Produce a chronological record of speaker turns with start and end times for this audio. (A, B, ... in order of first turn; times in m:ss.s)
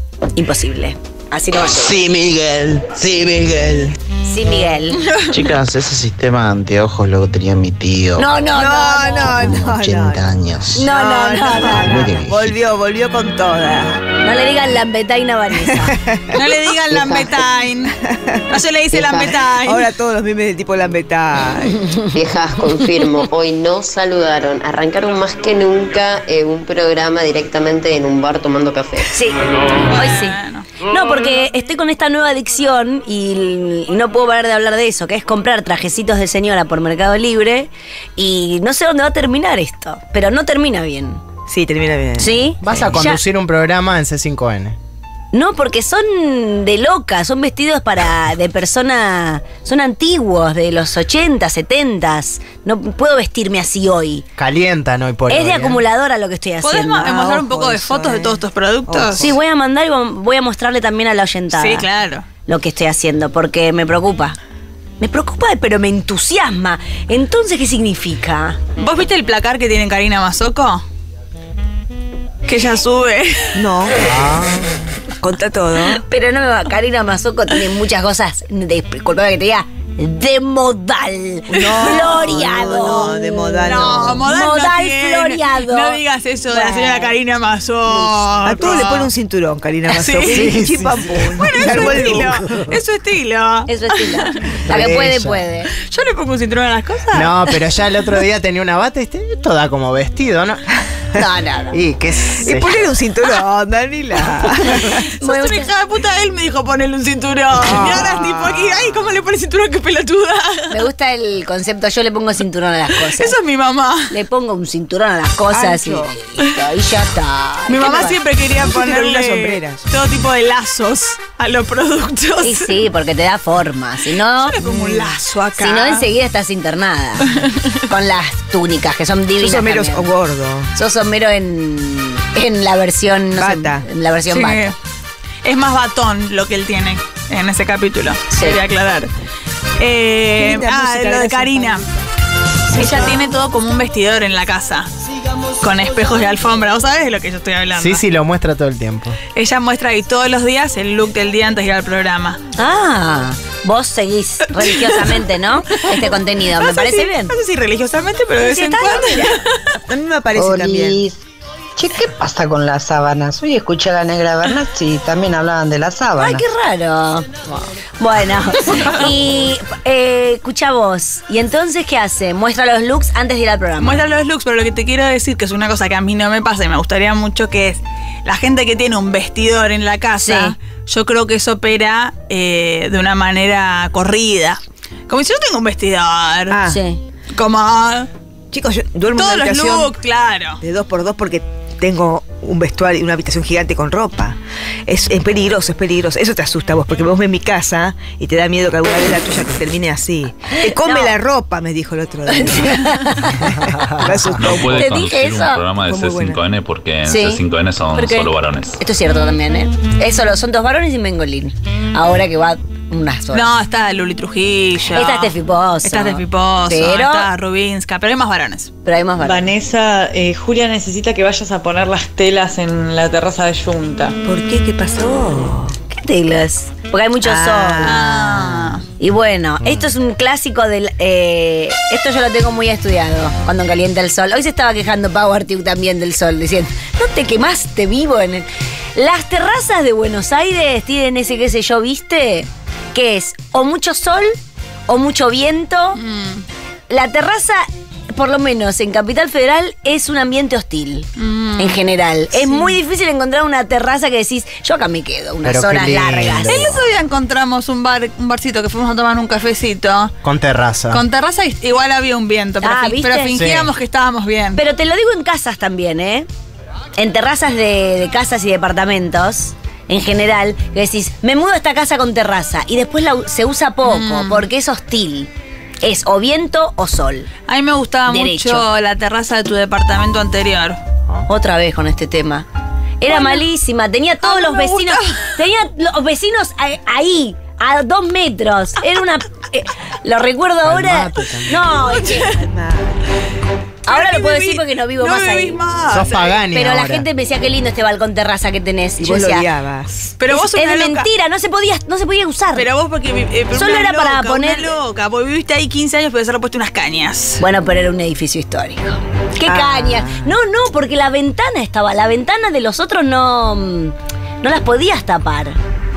0:00.4-0:02.0 A
0:01.7-0:03.9 B
0:04.3-0:05.0 A
0:05.3-0:08.3 B
0:08.2-0:09.3 A
0:08.5-0:14.0 C
0:09.2-0:10.9 B
0:10.7-0:12.1 A
0:11.8-0:12.5 B
0:14.2-0:15.9 A
0:15.6-0:16.4 C
0:16.3-0:17.9 D
0:18.0-0:21.8 C
0:18.5-0:19.9 D
0:22.1-0:29.1 E
0:29.9-0:30.7 D
0:29.9-0:41.2 A
0:41.5-0:42.4 C
0:42.2-0:43.2 A
0:42.6-0:44.8 F
0:45.3-0:54.2 A
0:54.4-0:55.8 F
0:55.3-0:57.4 A
0:56.6-0:59.2 D
0:57.3-0:59.4 C
0:59.2-1:01.8 A
1:01.5-1:02.2 D
1:02.5-1:04.4 A
1:05.0-1:08.6 A
1:08.8-1:10.8 D
1:12.4-1:13.5 D
1:13.5-1:14.6 C
1:14.1-1:14.6 F
1:15.2-1:16.0 C
1:16.1-1:26.0 A
1:21.5-1:24.2 C
1:23.6-1:29.1 D
1:26.5-1:27.1 A
1:28.4-1:32.4 C
1:29.9-1:30.5 D
1:30.2-1:32.6 F
1:31.4-1:34.4 D
1:33.7-1:35.7 A
1:34.7-1:35.4 F
1:35.8-1:37.6 D
1:37.1-1:40.6 F
1:41.2-1:41.8 A
1:41.7-1:42.9 F
1:42.4-1:45.1 C
1:45.2-1:45.7 A
1:45.2-1:50.7 D
1:47.6-1:48.8 C
1:50.7-1:53.3 A
1:53.0-1:54.1 D
1:54.1-1:58.2 A
1:55.5-1:56.2 C
1:57.7-2:02.7 D
1:58.6-1:59.8 C
2:02.4-2:04.6 A
2:04.5-2:06.0 D
2:04.6-2:05.2 C
2:05.6-2:07.3 A
2:07.9-2:10.1 A
2:09.4-2:10.7 C
2:10.7-2:14.7 A
2:13.4-2:13.8 C
2:14.3-2:14.8 D
2:15.4-2:19.1 D
2:18.3-2:18.6 A
2:19.8-2:21.8 D
2:20.4-2:21.9 C
2:22.7-2:24.9 D
2:22.7-2:23.0 C
2:22.7-2:23.1 A
2:25.6-2:28.0 D
2:27.8-2:29.2 F
2:29.3-2:32.4 D
2:32.6-2:37.3 A
2:36.6-2:39.6 D
2:38.4-2:39.4 A
2:39.9-2:41.0 C
2:40.3-2:41.1 G
2:41.8-2:46.4 G
2:46.2-2:47.3 A
2:48.0-2:54.0 A
2:53.8-3:06.6 D
3:00.2-3:00.5 A
3:06.5-3:06.8 C
3:06.7-3:07.0 A
3:07.3-3:08.1 D
3:08.5-3:09.9 C
3:09.2-3:10.6 D
3:10.6-3:25.1 C
3:20.6-3:21.1 A
3:22.3-3:23.3 A
3:24.4-3:28.8 H
3:24.7-3:25.6 A
3:25.8-3:26.4 C
3:27.0-3:27.4 A
3:27.9-3:33.5 A
3:33.3-3:35.3 D
3:34.9-3:37.3 A
3:35.8-3:38.7 D
3:38.8-3:39.4 A
3:39.2-3:44.2 I
3:44.2-3:45.7 C
3:45.9-3:47.9 A
3:47.2-3:48.8 C
3:47.8-3:48.8 D
3:49.0-4:04.4 A
3:49.6-3:49.9 F
4:04.9-4:06.0 A
4:06.0-4:06.4 D
4:06.9-4:16.5 A
4:11.2-4:11.8 D
4:15.4-4:16.8 F
4:16.5-4:20.1 D
4:20.2-4:21.0 F
4:20.9-4:24.6 D
4:22.6-4:23.3 A
4:23.3-4:23.7 F
4:24.6-4:26.3 A
4:27.0-4:35.3 A
4:33.8-4:34.4 D
4:35.8-4:37.3 A
4:37.5-4:40.8 D
4:38.1-4:38.6 A
4:41.3-4:42.4 A
4:43.0-4:52.3 A
4:43.1-4:43.4 D
4:44.2-4:45.3 D
4:50.6-4:51.6 F
4:51.9-4:52.4 D
4:52.4-4:53.0 C
4:53.8-4:55.6 A
4:53.9-4:56.4 D
4:55.9-4:57.0 F
4:56.5-4:59.4 A
4:59.0-4:59.9 C
5:00.2-5:01.1 D
5:00.3-5:02.7 A
5:02.5-5:07.4 D
5:03.5-5:04.7 A
5:07.4-5:15.6 A
5:09.4-5:10.3 C